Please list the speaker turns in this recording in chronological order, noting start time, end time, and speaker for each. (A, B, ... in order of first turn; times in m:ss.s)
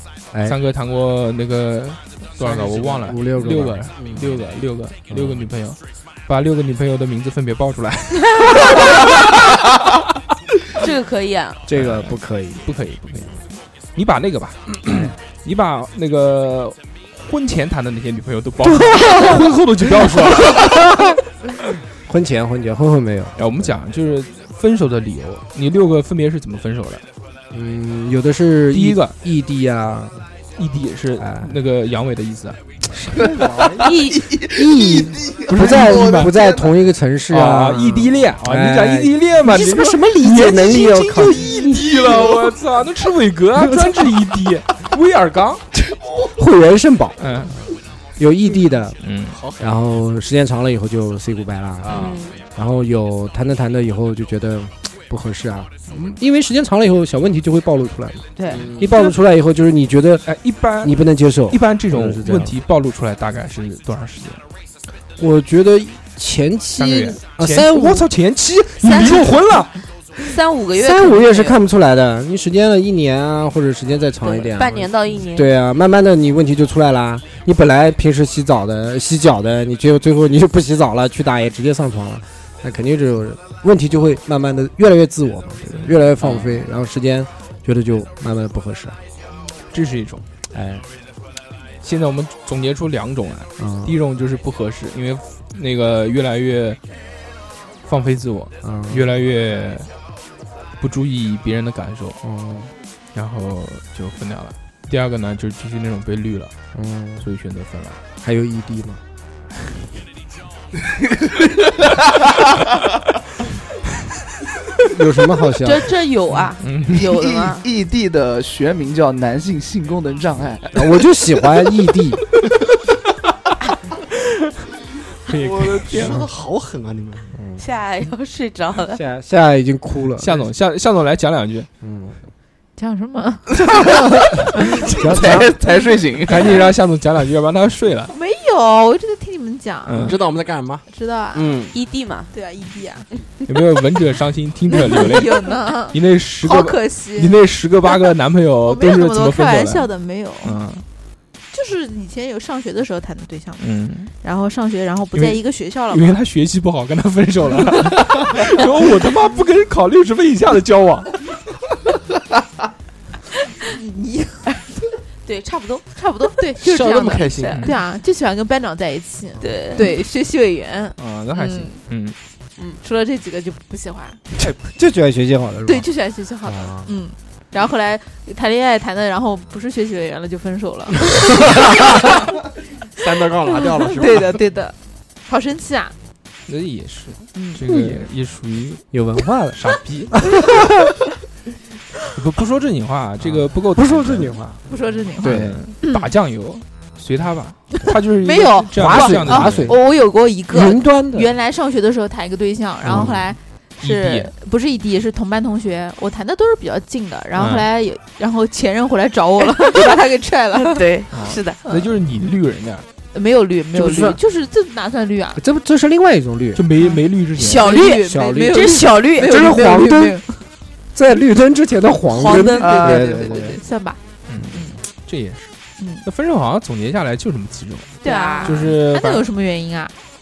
0:00.3-0:00.6 A
0:00.4-0:08.9 B
0:02.4-0:03.9 A
0:04.0-0:04.3 C
0:05.1-0:05.5 A
0:10.8-0:11.6 D
0:11.6-0:12.6 A
0:11.7-0:21.1 B
0:18.6-0:21.1 A
0:22.0-0:23.7 A
0:23.4-0:27.0 B
0:27.5-0:30.2 A
0:28.7-0:29.1 B
0:30.6-0:32.6 B
0:31.2-0:31.5 A
0:32.9-0:33.8 A
0:33.2-0:36.7 E
0:33.3-0:33.8 C
0:33.8-0:34.3 D
0:34.4-0:41.9 A
0:35.5-0:36.3 B
0:37.3-0:45.6 B
0:41.6-0:42.4 E
0:43.6-0:44.0 A
0:46.3-0:47.2 A
0:47.2-0:47.5 B
0:48.2-0:49.0 A
0:49.0-0:49.4 B
0:49.3-0:49.8 C
0:49.6-1:00.3 A
0:51.8-0:52.2 C
0:51.9-0:52.4 D
0:58.4-0:58.7 D
0:58.5-0:59.0 C
1:00.2-1:04.4 B
1:00.8-1:02.5 A
1:05.2-1:08.1 A
1:06.8-1:09.8 B
1:08.8-1:09.3 D
1:10.2-1:11.6 D
1:10.7-1:29.0 A
1:14.2-1:15.5 D
1:25.7-1:25.9 B
1:29.7-1:30.2 B
1:30.5-1:30.8 A
1:31.8-1:36.8 B
1:33.6-1:33.9 A
1:37.8-1:39.9 B
1:38.6-1:39.1 A
1:40.8-1:42.2 B
1:42.2-1:42.7 A
1:43.1-1:46.5 B
1:46.7-1:47.2 A
1:47.2-1:48.0 B
1:48.2-1:49.0 A
1:54.8-1:55.9 A
1:55.6-1:57.6 D
1:56.6-1:57.0 B
1:57.0-2:01.0 E
2:00.7-2:02.2 A
2:05.3-2:06.2 B
2:05.3-2:07.3 C
2:05.9-2:06.3 A
2:07.3-2:07.6 A
2:07.6-2:09.0 D
2:08.9-2:10.4 A
2:10.2-2:11.7 B
2:11.8-2:12.2 A
2:12.8-2:13.6 F
2:13.7-2:16.6 E
2:15.0-2:15.6 A
2:16.2-2:18.1 B
2:18.1-2:20.2 F
2:19.8-2:20.2 B
2:19.9-2:21.7 C
2:20.9-2:21.6 F
2:21.7-2:22.3 D
2:22.3-2:23.0 F
2:23.5-2:29.9 B
2:24.7-2:27.4 F
2:28.6-2:30.6 F
2:30.4-2:30.8 B
2:31.5-2:33.6 F
2:33.6-2:34.1 B
2:34.2-2:36.2 F
2:35.1-2:41.1 B
2:43.6-2:44.8 F
2:45.2-2:45.9 D
2:46.0-2:51.8 F
2:46.6-2:47.6 C
2:47.2-2:47.6 D
2:47.5-2:47.8 B
2:49.4-2:49.9 D
2:51.0-2:52.2 B
2:52.8-2:54.2 F
2:54.5-2:55.9 A
2:55.6-3:02.0 F
2:56.4-2:56.9 A
3:01.5-3:02.1 C
3:02.9-3:04.4 C
3:03.8-3:04.7 F
3:05.2-3:05.9 F
3:06.5-3:08.8 B
3:07.3-3:07.6 F
3:07.6-3:08.0 A
3:08.9-3:09.6 A
3:09.5-3:10.2 B
3:10.1-3:10.9 A
3:12.1-3:14.4 B
3:13.2-3:15.6 A
3:14.7-3:16.1 F
3:15.2-3:19.7 B
3:17.9-3:30.9 F
3:18.7-3:19.8 A
3:20.5-3:21.3 A
3:22.8-3:23.2 A
3:22.9-3:23.1 B
3:23.8-3:24.3 B
3:27.4-3:27.6 B
3:30.6-3:31.6 D
3:31.1-3:32.9 B
3:33.1-3:35.4 F
3:33.7-3:34.2 A
3:35.4-3:36.6 A
3:36.5-3:37.7 B
3:37.4-3:39.3 D
3:37.5-3:40.4 F
3:38.0-3:40.2 A
3:40.9-3:43.6 A
3:42.1-3:43.1 D
3:42.3-3:44.0 F
3:42.6-3:43.2 E
3:44.3-3:45.5 B
3:44.5-3:44.8 F
3:45.8-3:46.0 F
3:46.0-3:49.2 B
3:48.0-3:49.9 F
3:48.0-3:48.6 D